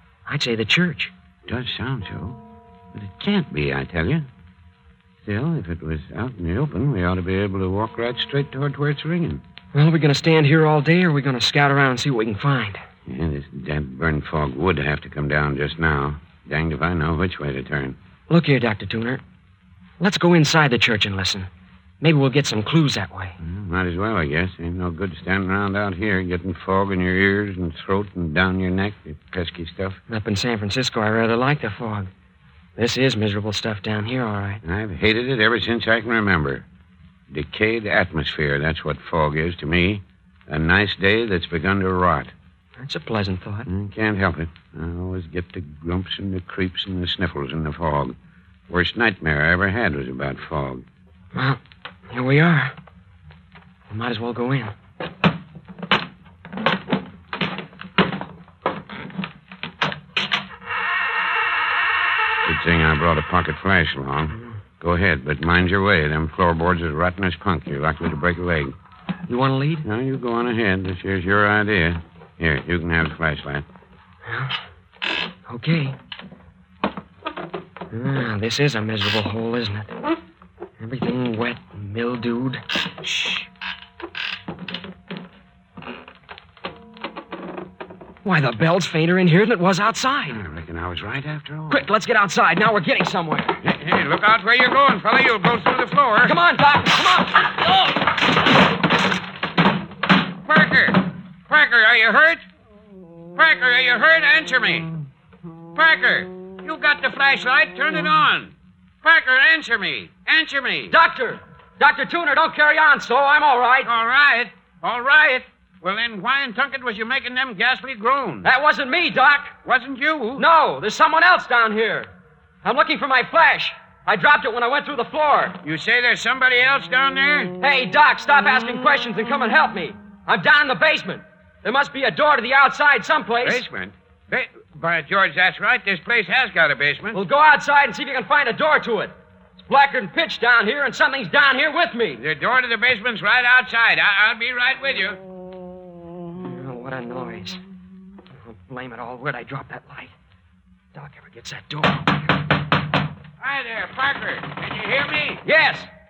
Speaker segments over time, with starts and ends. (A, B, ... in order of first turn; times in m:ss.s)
0:00.2-0:01.1 A
0:01.5-0:02.4 B
0:02.9-0:04.3 B
0:05.2-0:09.4 B
0:09.7-0:12.8 A
0:13.1-0:18.0 B
0:18.3-0:19.2 A
0:20.0-0:21.5 A
0:22.0-0:23.4 A
0:23.4-0:30.0 B
0:30.1-0:32.1 A
0:32.8-0:34.6 A
0:34.6-0:36.6 B
0:37.3-0:42.3 B
0:42.8-0:43.7 A
0:43.7-0:48.1 B
0:48.7-0:50.8 B
0:51.3-0:52.7 A
0:53.9-0:54.7 A
1:02.4-1:08.7 B
1:09.3-1:09.8 A
1:09.8-1:13.6 B
1:14.2-1:14.6 A
1:15.5-1:16.0 A
1:17.9-1:20.0 A
1:20.8-1:23.4 A
1:28.2-1:30.4 A
1:30.3-1:31.8 B
1:31.7-1:33.6 A
1:33.6-1:36.4 B
1:36.2-1:38.0 A
1:40.4-1:42.4 B
1:43.4-1:44.9 B
1:45.7-1:51.0 B
1:50.9-1:53.9 A
1:53.8-1:58.5 B
1:58.4-1:59.6 A
1:59.6-2:00.4 B
2:00.4-2:02.1 A
2:02.6-2:05.6 A
2:05.6-2:07.5 B
2:07.6-2:13.6 A
2:13.4-2:17.2 B
2:17.1-2:22.2 A
2:22.2-2:25.2 B
2:26.4-2:27.6 A
2:28.4-2:30.1 A
2:30.9-2:32.3 A
2:33.4-2:35.4 B
2:35.4-2:35.9 A